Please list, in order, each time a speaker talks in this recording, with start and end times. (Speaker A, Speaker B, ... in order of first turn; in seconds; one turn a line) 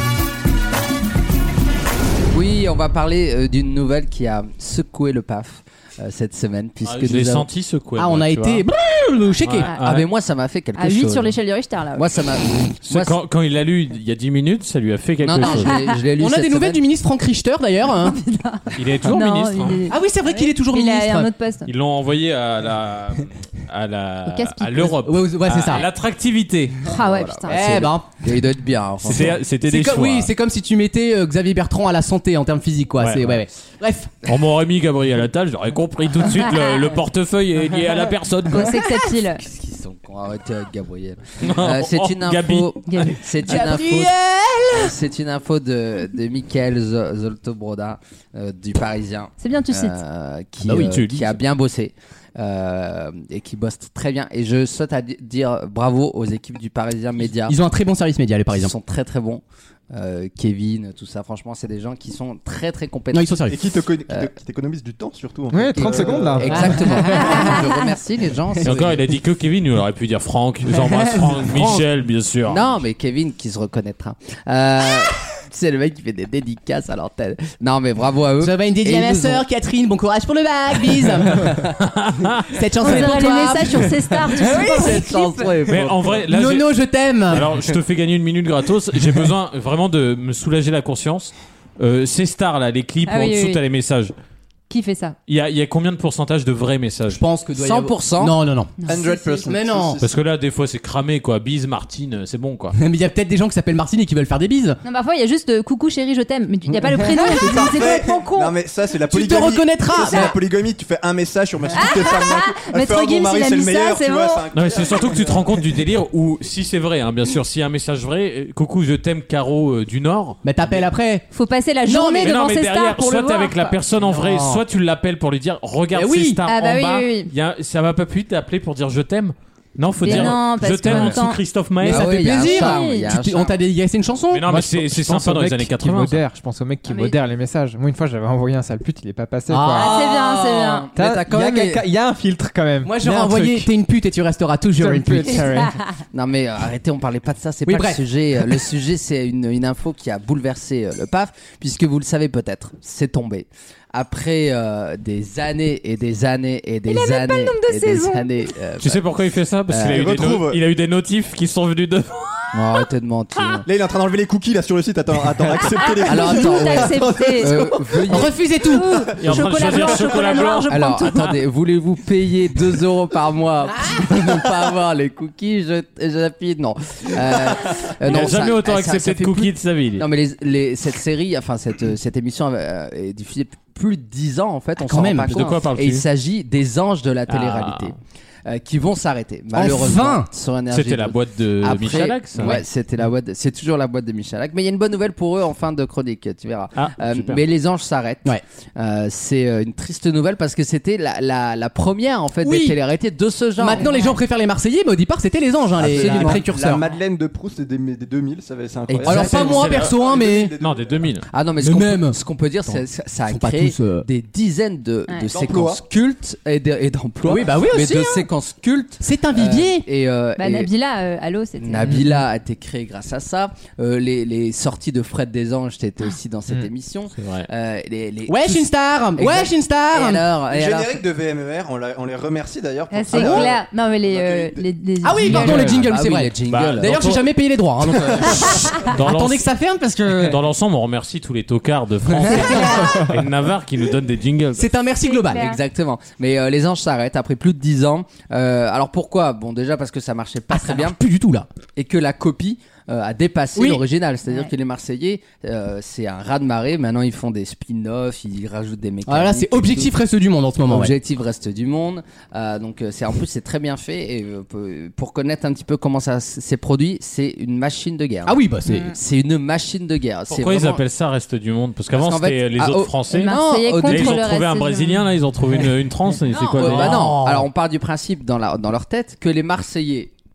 Speaker A: 2.3-7.5
Speaker B: 6.8-8.7
Speaker C: 8.0-9.7
Speaker B: 9.4-10.1
Speaker A: 9.8-11.4
Speaker D: 10.8-12.1
Speaker A: 11.9-13.2
Speaker B: 12.8-15.8
Speaker A: 15.2-16.8
Speaker D: 15.4-16.0
Speaker C: 16.2-18.2
Speaker D: 18.0-21.7
Speaker B: 18.8-19.8
Speaker C: 19.9-21.3
Speaker B: 21.7-26.8
Speaker D: 24.3-25.0
Speaker C: 25.0-25.9
Speaker D: 26.8-27.9
Speaker A: 26.9-29.4
Speaker C: 27.5-28.1
Speaker B: 29.0-30.3
Speaker C: 29.6-34.1
Speaker B: 33.0-33.4
Speaker B: 34.3-38.8
Speaker D: 36.2-37.0
Speaker D: 38.5-39.4
Speaker A: 39.4-44.1
Speaker B: 41.4-43.1
Speaker D: 42.9-43.2
Speaker C: 43.5-44.9
Speaker A: 44.7-57.6
Speaker D: 49.4-50.0
Speaker C: 50.6-51.1
Speaker B: 50.7-51.3
Speaker C: 57.5-58.7
Speaker A: 58.5-64.3
Speaker C: 63.1-63.6
Speaker E: 63.5-66.7
Speaker F: 65.5-67.2
Speaker A: 65.7-69.0
Speaker C: 66.5-67.4
Speaker D: 67.1-67.8
Speaker B: 68.6-72.7
Speaker C: 70.7-71.8
Speaker A: 72.5-79.5
Speaker C: 78.4-81.7
Speaker B: 81.8-82.5
Speaker C: 82.5-85.5
Speaker D: 82.8-85.5
Speaker A: 84.3-86.2
Speaker B: 85.7-86.7
Speaker C: 86.3-87.5
Speaker B: 87.3-94.1
Speaker D: 93.1-93.6
Speaker D: 94.7-95.2
Speaker B: 95.3-97.2
Speaker C: 97.1-98.8
Speaker A: 97.6-98.4
Speaker D: 98.8-99.5
Speaker E: 98.8-100.1
Speaker C: 99.5-100.0
Speaker B: 100.0-102.8
Speaker C: 102.8-104.8
Speaker D: 104.8-108.5
Speaker E: 106.9-115.7
Speaker C: 107.2-107.5
Speaker C: 109.1-110.3
Speaker D: 111.7-114.5
Speaker B: 114.5-120.8
Speaker C: 120.4-121.3
Speaker D: 121.3-123.8
Speaker C: 121.9-122.3
Speaker B: 122.2-132.2
Speaker C: 124.0-124.6
Speaker C: 125.9-126.4
Speaker D: 126.5-127.3
Speaker D: 130.0-131.4
Speaker C: 131.8-134.4
Speaker A: 131.8-133.6
Speaker D: 132.3-133.1
Speaker B: 134.3-136.2
Speaker F: 134.5-140.0
Speaker D: 136.9-137.1
Speaker C: 139.5-140.3
Speaker D: 139.8-140.9
Speaker A: 140.0-141.8
Speaker F: 141.0-143.7
Speaker C: 142.8-145.7
Speaker F: 144.8-145.7
Speaker D: 145.5-145.8
Speaker A: 146.1-159.1
Speaker C: 147.7-148.0
Speaker D: 156.9-158.3
Speaker B: 158.8-162.1
Speaker A: 159.7-160.3
Speaker E: 159.9-160.6
Speaker A: 162.5-163.7
Speaker E: 163.7-168.2
Speaker D: 165.7-167.7
Speaker A: 166.1-168.3
Speaker C: 168.1-168.9
Speaker D: 168.6-171.3
Speaker B: 169.2-170.7
Speaker A: 170.7-187.9
Speaker B: 178.0-180.1
Speaker C: 184.8-185.5
Speaker B: 185.3-186.1
Speaker B: 187.3-187.9
Speaker A: 188.5-203.9
Speaker C: 189.5-190.3
Speaker B: 190.7-192.6
Speaker C: 192.4-192.6
Speaker B: 196.8-197.5
Speaker C: 202.4-202.8
Speaker C: 203.6-206.8
Speaker D: 203.8-204.2
Speaker E: 205.8-211.2
Speaker A: 205.8-206.5
Speaker A: 208.9-209.5
Speaker C: 209.0-210.5
Speaker B: 209.1-210.0
Speaker B: 210.6-211.2
Speaker A: 211.3-220.7
Speaker C: 211.6-214.1
Speaker E: 215.3-215.8
Speaker C: 217.2-218.3
Speaker C: 219.0-219.8
Speaker D: 220.4-222.0
Speaker A: 221.6-231.0
Speaker F: 221.9-222.2
Speaker B: 227.2-227.5
Speaker C: 228.3-230.2
Speaker E: 230.5-234.7
Speaker D: 232.9-235.8
Speaker C: 233.1-233.5
Speaker C: 235.0-240.4
Speaker F: 235.2-235.9
Speaker A: 235.6-237.2
Speaker B: 236.5-237.2
Speaker B: 238.7-239.5
Speaker B: 240.2-244.7
Speaker C: 242.2-242.9
Speaker D: 242.3-243.1
Speaker C: 244.6-245.5
Speaker D: 245.0-245.6
Speaker A: 245.3-251.0
Speaker C: 250.5-251.5
Speaker A: 251.8-259.9
Speaker C: 253.6-253.8
Speaker D: 254.3-254.5
Speaker C: 259.1-260.9
Speaker A: 260.7-270.8
Speaker C: 268.3-268.9
Speaker D: 268.7-268.9
Speaker B: 270.3-277.2
Speaker A: 271.9-274.2
Speaker D: 273.1-275.1
Speaker D: 276.3-276.6
Speaker C: 276.6-277.5
Speaker A: 276.6-280.1